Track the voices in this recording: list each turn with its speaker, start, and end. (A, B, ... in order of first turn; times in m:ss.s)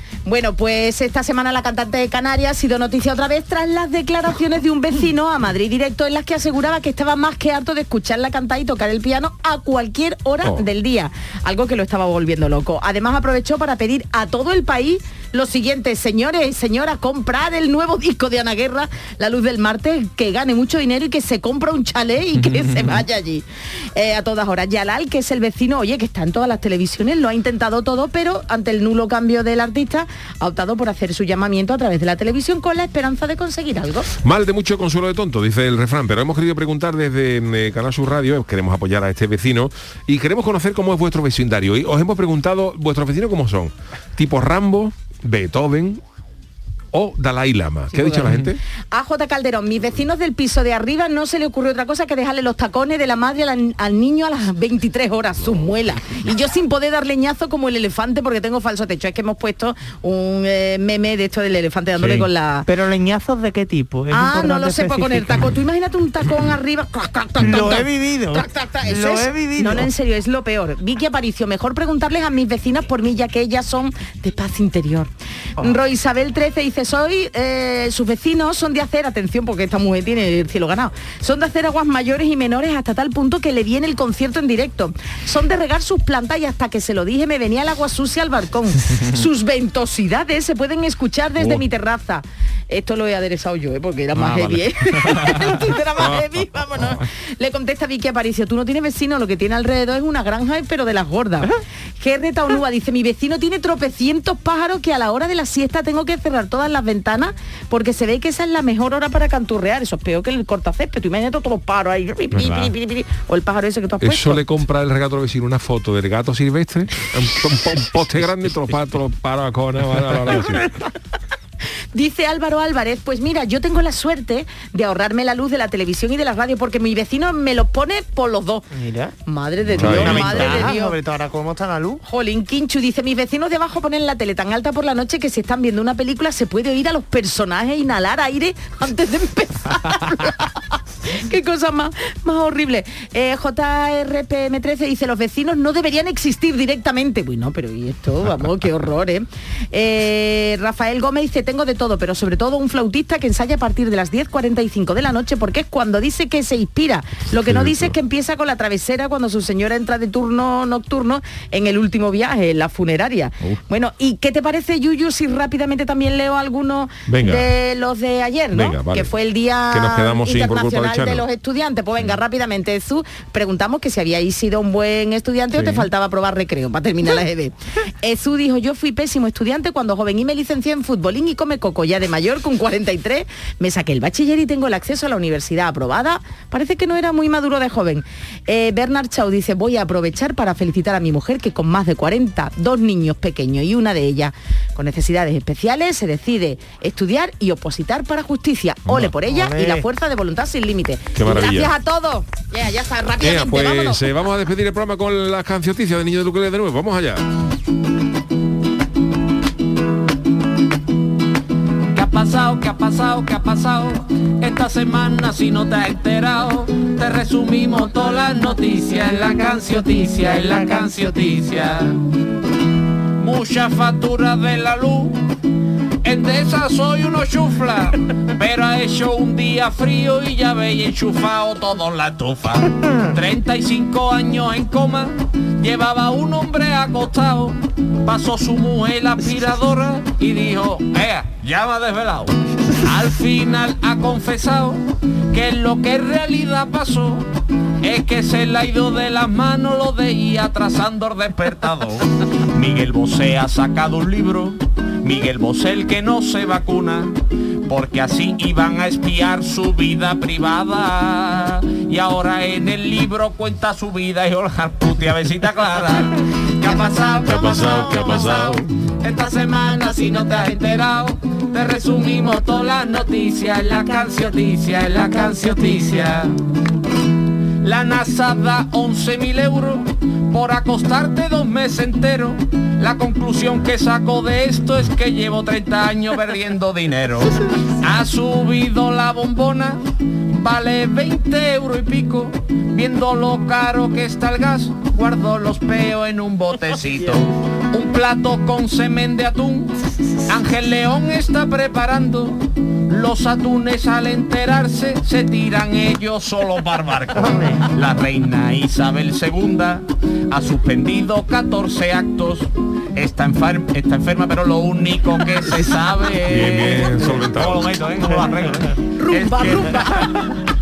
0:00.2-0:34.1 A
0:22.4-0:23.0 B
0:34.2-0:46.0 C
0:46.9-0:48.6 C
0:47.9-0:48.3 A
0:48.9-1:02.7 A
1:02.0-1:02.3 B
1:02.6-1:05.5 D
1:04.1-1:54.4 A
1:07.4-1:09.9 D
1:34.1-1:35.6 B
1:36.0-1:37.0 C
1:52.3-1:52.7 C
1:54.0-2:00.7 C
2:01.9-2:08.6 A
2:08.7-2:09.2 D
2:09.2-2:11.0 A
2:09.7-2:10.7 C
2:09.7-2:12.0 D
2:12.0-3:24.0 A
2:37.3-2:37.9 C
2:47.1-2:47.5 C
2:48.5-2:49.1 C
2:49.7-2:51.2 C
2:55.5-2:55.9 C
3:19.2-3:19.9 D
3:21.2-3:21.7 C
3:23.2-3:27.2 C
3:31.9-3:42.0 B
3:43.2-3:45.2 B
3:46.0-4:07.3 B
4:07.8-4:17.1 B
4:17.7-4:36.3 B
4:27.2-4:28.9 C
4:37.6-5:20.3 B
5:07.1-5:07.6 D
5:16.2-5:17.8 C
5:18.0-5:18.6 D
5:18.9-5:20.2 A